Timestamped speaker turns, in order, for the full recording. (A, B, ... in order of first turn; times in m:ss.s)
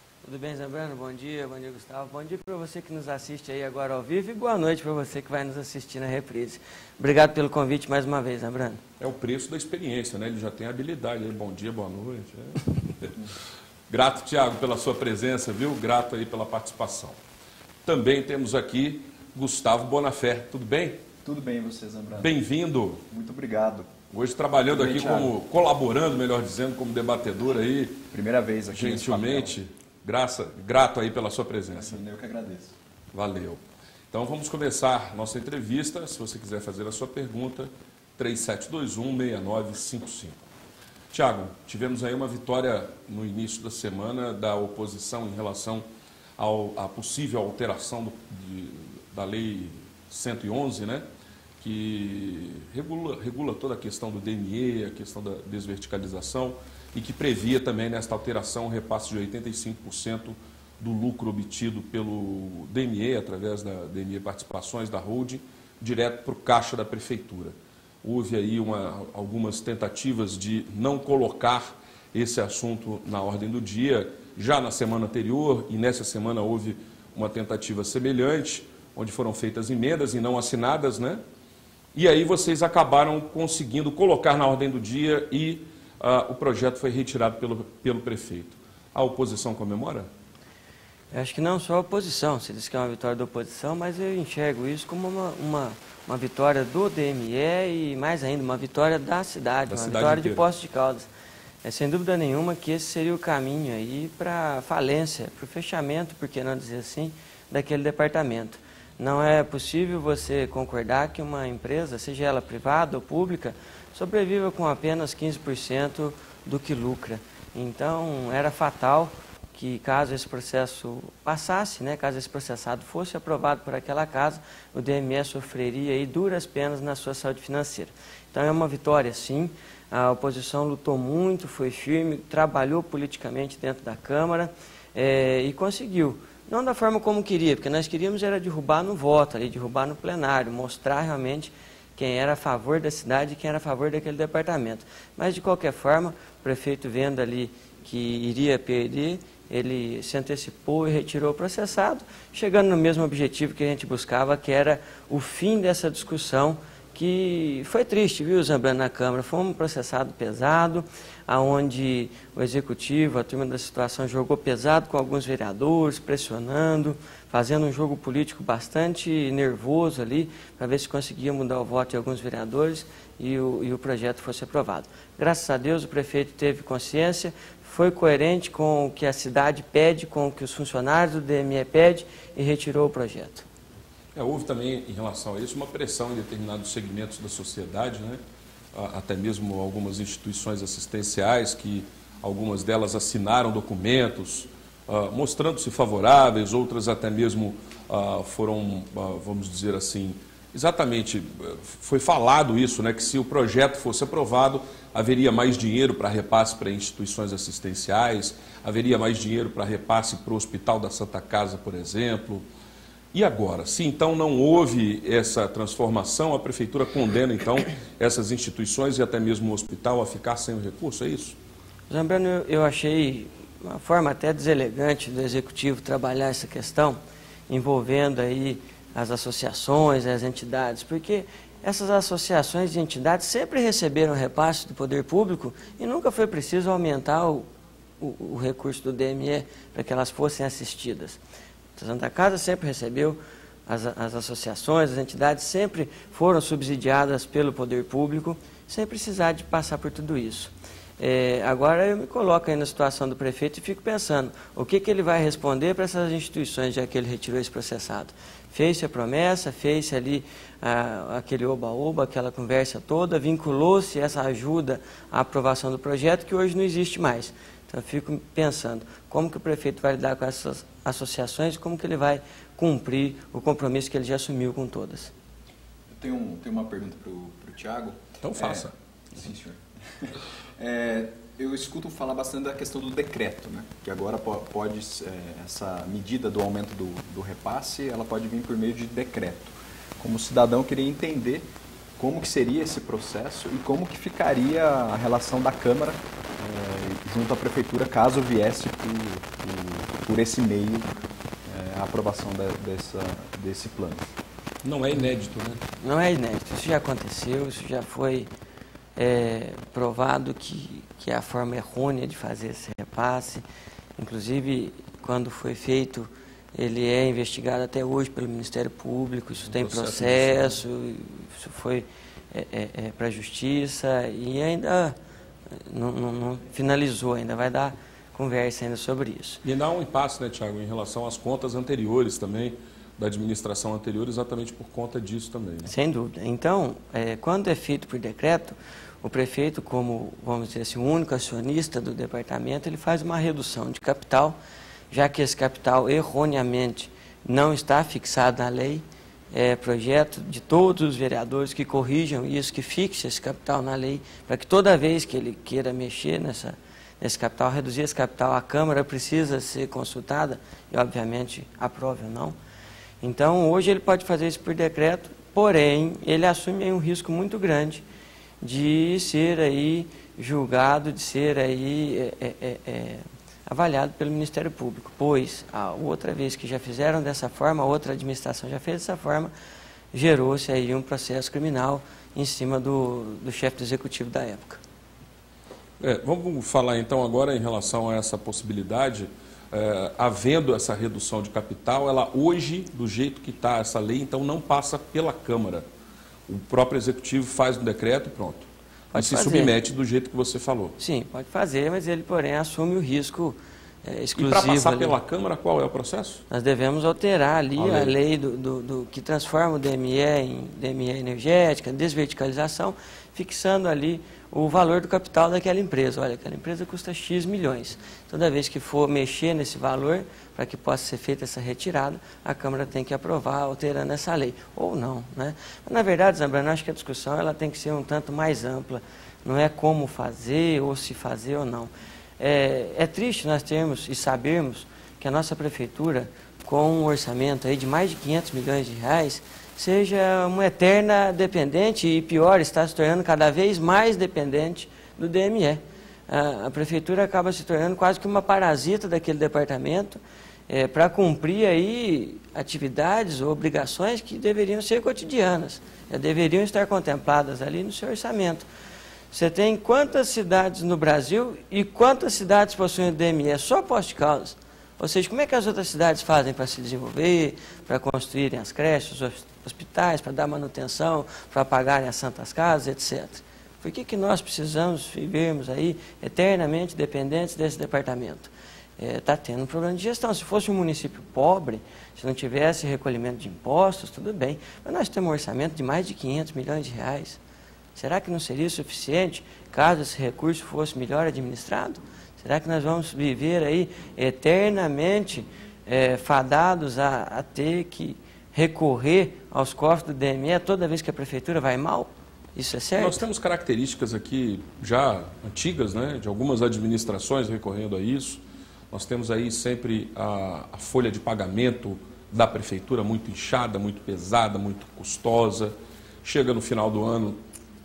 0:00.2-0:08.8 A
0:09.0-0:13.1 B
0:13.9-0:17.2 B
0:17.8-0:21.0 B
0:21.2-0:22.3 C
0:22.2-0:23.0 B
0:23.1-0:23.9 C
0:24.1-0:28.0 B
0:24.7-0:25.3 C
0:28.1-0:29.6 C
0:28.7-0:32.0 B
0:31.8-0:32.7 C
0:33.1-0:33.6 B
0:34.1-0:40.4 B
0:41.1-0:45.8 B
0:46.4-0:51.0 B
0:51.6-1:21.2 B
1:21.9-1:30.1 B
1:31.1-1:41.1 A
1:39.7-1:40.4 B
1:41.6-3:03.4 A
3:04.2-3:08.2 B
3:08.7-3:32.4 B
3:33.1-3:41.4 B
3:41.9-3:57.5 A
3:58.0-4:01.2 A
4:01.8-4:35.1 A
4:35.9-5:04.1 C
4:38.2-4:38.7 B
5:04.6-5:05.6 B
5:05.8-5:08.3 A
5:09.0-5:13.4 A
5:14.0-5:25.0 A
5:19.5-5:20.6 B
5:25.7-5:29.4 A
5:29.4-5:35.7 B
5:35.7-5:44.4 A
5:44.9-6:02.4 A
6:03.0-6:07.8 A
6:08.4-6:19.3 A
6:19.9-6:24.6 A
6:25.8-6:35.6 B
6:36.3-6:40.8 B
6:38.9-6:39.5 A
6:40.8-6:45.0 A
6:44.2-6:46.2 B
6:46.3-7:38.4 A
6:47.6-6:47.9 B
7:39.1-8:07.2 A
8:07.8-8:23.0 A
8:22.8-8:37.2 B